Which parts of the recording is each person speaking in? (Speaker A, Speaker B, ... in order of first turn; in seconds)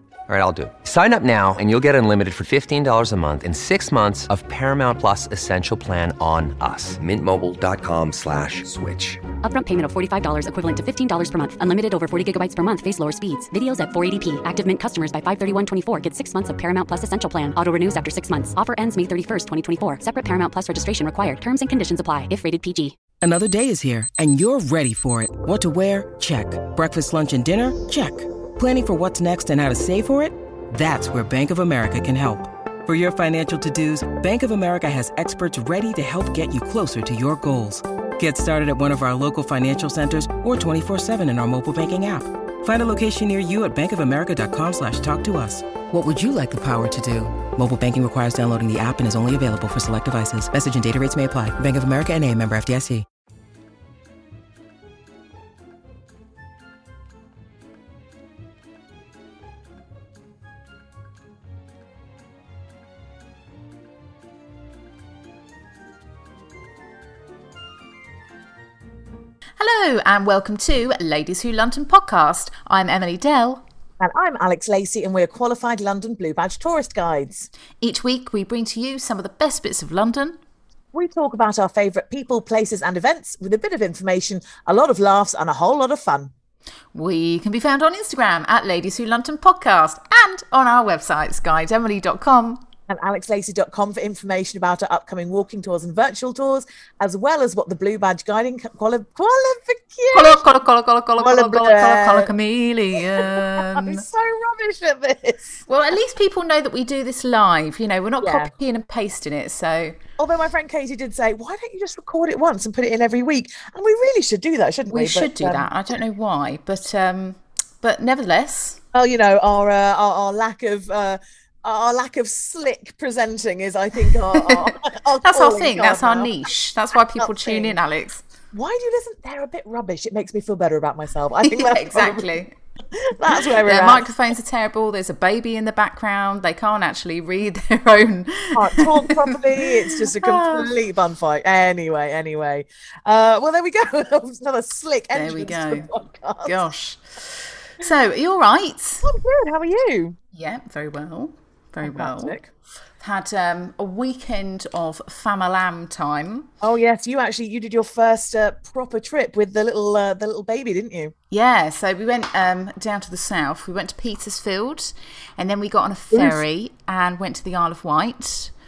Speaker A: 0.3-9.2
Speaker B: 9.4-23.0
Speaker C: 23.2-53.0
Speaker D: 69.6-73.7, 77.8-80.4, 86.9-92.7, 100.1-104.0, 105.7-110.0, 114.9-118.8, 124.3-128.2, 131.4-132.6, 133.6-140.8, 145.1-145.9, 146.4-149.1, 150.3-152.4, 153.0-156.5, 161.3-168.5
Speaker E: 74.0-77.5, 80.9-86.3, 92.9-100.5, 101.2-102.3, 102.9-105.6, 108.2-108.5, 110.2-115.7, 118.9-126.3, 127.2-127.8, 128.5-132.3, 132.9-134.1, 138.5-146.6, 149.0-150.2, 151.8-152.5, 156.6-161.1, 166.1-166.4